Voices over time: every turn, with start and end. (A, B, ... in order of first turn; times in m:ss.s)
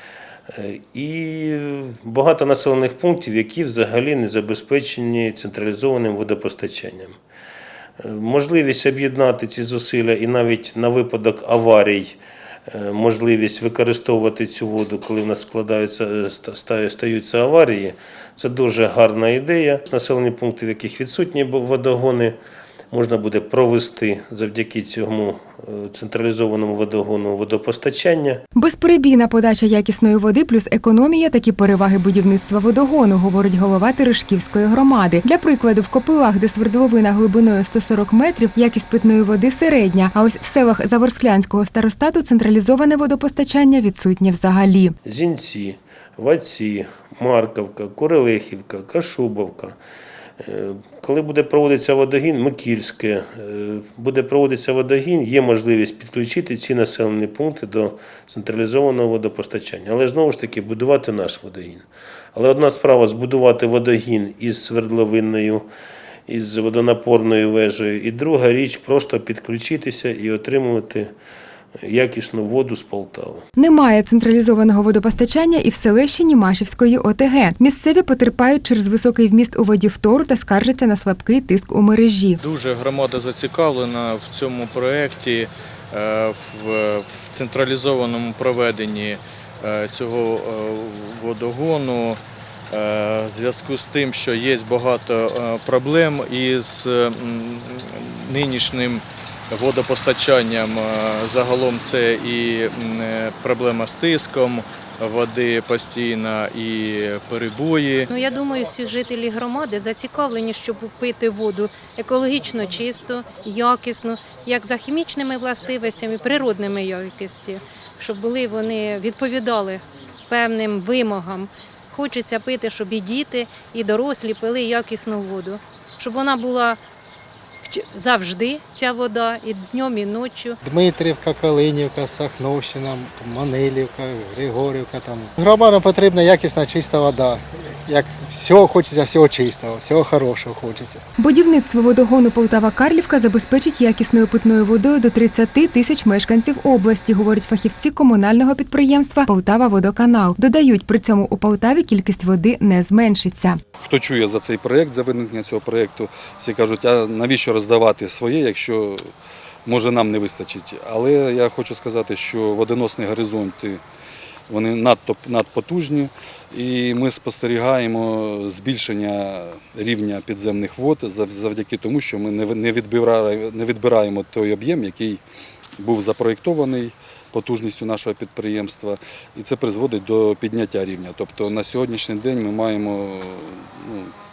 0:00.5-0:07.2 A
0:08.0-0:12.2 A
0:12.7-0:22.4 A
0:22.9-0:28.4 A
0:28.6-0:45.0 B
0:45.0-0:49.8 A
0:50.4-1:05.6 A
1:06.3-1:11.1 A
1:11.8-1:13.4 A
1:13.6-1:22.4 B
1:22.4-1:32.2 C
1:32.7-1:48.1 C
1:48.1-2:06.8 D
2:07.6-2:10.6 D
2:10.6-2:21.0 E
2:21.2-2:33.6 B
2:33.8-2:39.1 F
2:39.6-2:43.8 F
2:44.5-2:55.2 F
2:55.8-3:04.1 F